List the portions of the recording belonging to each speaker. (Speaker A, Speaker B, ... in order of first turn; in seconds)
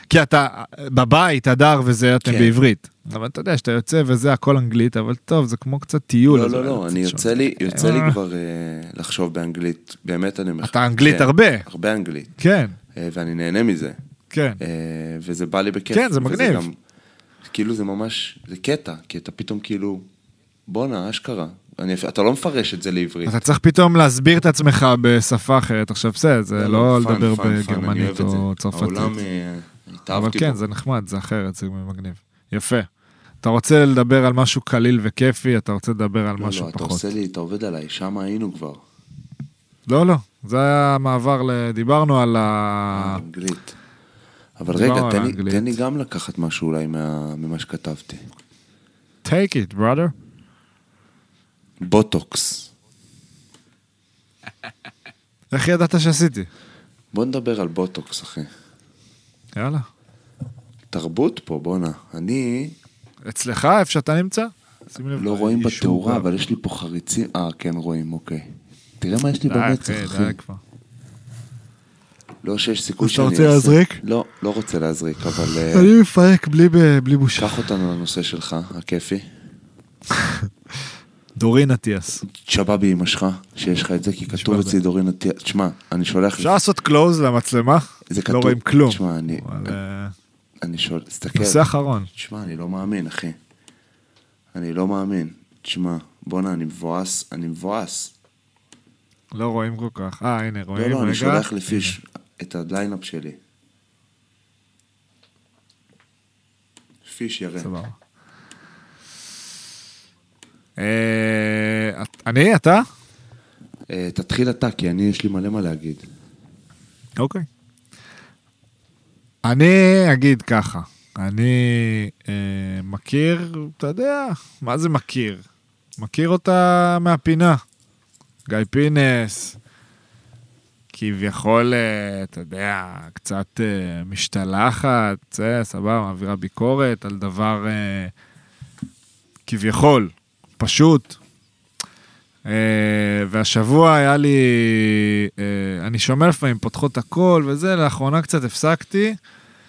Speaker A: 0.1-8.2, 10.6-11.7, 12.4-12.8, 14.3-14.6, 15.9-16.7, 23.2-29.1, 30.1-32.9, 33.4-37.1, 39.9-43.2, 44.7-45.8, 49.2-50.1, 55.5-56.5, 59.6-59.9, 63.3-66.3, 69.4-70.6, 73.0-74.0, 75.5-77.6, 80.1-80.5, 81.4-82.2, 84.3-84.8, 86.4-90.1, 91.4-92.1, 99.3-102.0, 107.6-108.0, 110.8-112.8, 117.2-117.5, 119.4-125.4, 126.0-127.6, 128.5-129.6, 130.9-138.1, 139.5-141.2, 142.5-149.2
Speaker B: 2.2-2.5, 6.3-12.3, 12.9-14.0, 14.6-16.8, 17.4-20.1, 20.7-23.4, 26.6-30.6, 36.4-38.8, 42.9-43.8, 44.6-48.2, 51.8-52.7, 57.1-58.5, 60.9-62.8, 65.2-70.4, 72.4-75.9, 77.4-79.3, 82.3-86.6, 88.1-89.8, 90.6-93.4, 94.5-98.1, 100.8-103.4, 107.0-107.7, 113.9-116.1